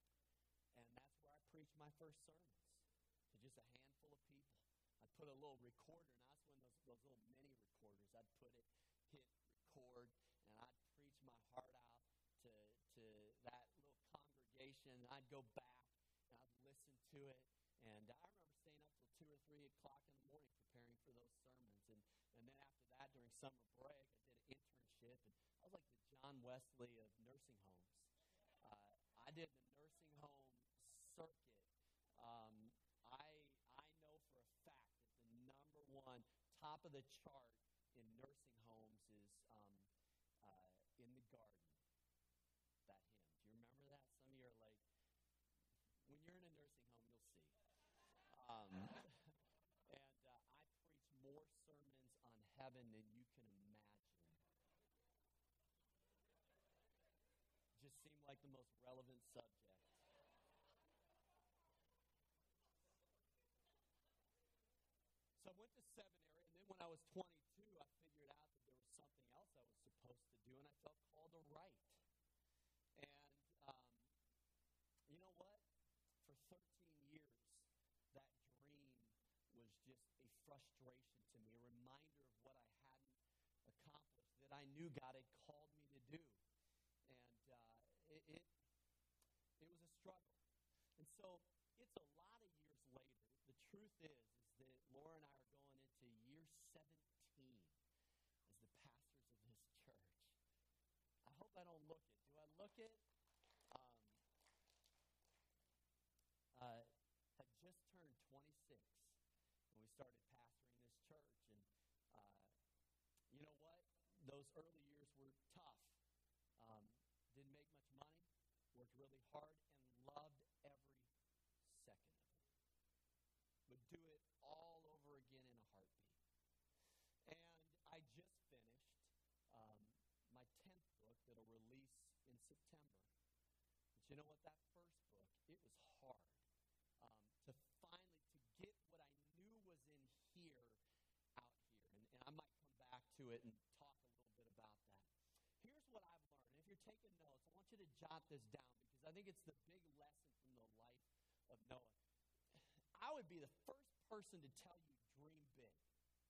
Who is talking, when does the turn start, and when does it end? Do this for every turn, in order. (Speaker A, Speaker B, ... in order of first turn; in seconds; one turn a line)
Speaker A: 0.7-39.9
Speaker A: 40.4-41.8
Speaker A: 42.9-44.8
Speaker A: 46.0-47.6
Speaker A: 48.3-49.3
Speaker A: 49.9-54.4
Speaker A: 57.8-60.0
Speaker A: 65.4-72.0
Speaker A: 73.0-74.1
Speaker A: 75.1-75.6
Speaker A: 76.2-86.4
Speaker A: 87.1-88.5
Speaker A: 89.6-90.4
Speaker A: 91.0-97.8
Speaker A: 98.5-100.4
Speaker A: 101.2-103.0
Speaker A: 103.7-104.2
Speaker A: 106.5-109.2
Speaker A: 109.7-112.5
Speaker A: 113.3-116.0
Speaker A: 116.6-121.1
Speaker A: 121.6-122.4
Speaker A: 123.7-126.2
Speaker A: 127.3-133.1
Speaker A: 134.0-136.5
Speaker A: 137.0-140.8
Speaker A: 141.4-145.1
Speaker A: 145.6-152.0
Speaker A: 152.5-155.8